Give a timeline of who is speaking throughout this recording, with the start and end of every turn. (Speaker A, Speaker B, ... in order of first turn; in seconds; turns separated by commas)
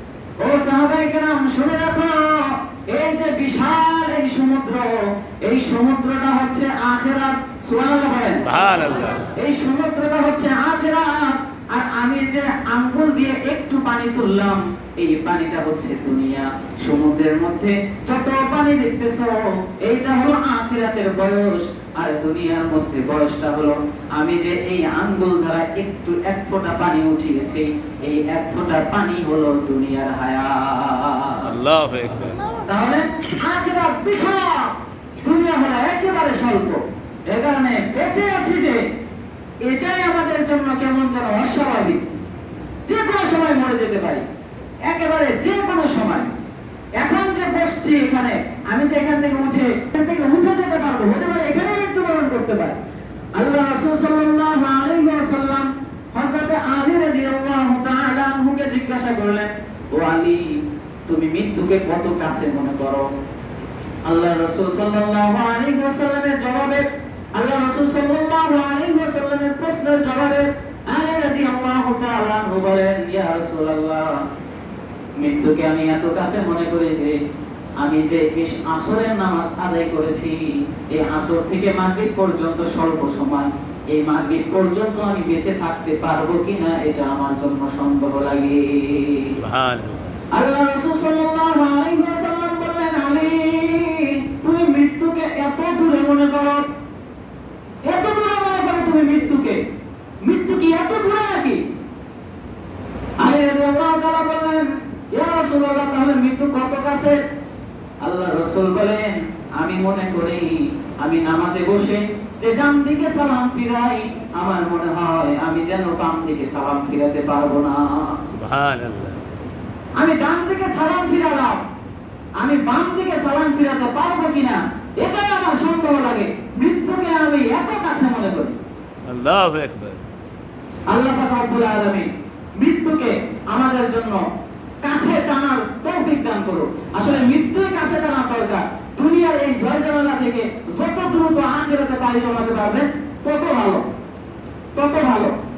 Speaker A: 0.4-8.5, Speaker B: 8.4-9.2, Speaker A: 9.3-31.5, Speaker B: 31.4-32.5, Speaker A: 32.6-38.8, Speaker A: 39.6-42.0, Speaker A: 42.9-44.2, Speaker A: 44.8-46.3, Speaker A: 47.0-52.8, Speaker A: 53.4-63.0, Speaker A: 64.0-74.2, Speaker A: 75.2-77.2, Speaker A: 77.8-89.3, Speaker B: 89.3-90.1, Speaker A: 90.3-96.7, Speaker A: 97.8-99.6, Speaker A: 100.2-101.6, Speaker A: 103.2-107.2, Speaker A: 108.0-118.2, Speaker B: 118.3-119.2, Speaker A: 120.0-121.6, Speaker A: 122.4-128.6, Speaker B: 129.1-130.0, Speaker A: 130.9-134.2, Speaker A: 134.8-143.8, Speaker A: 144.7-145.3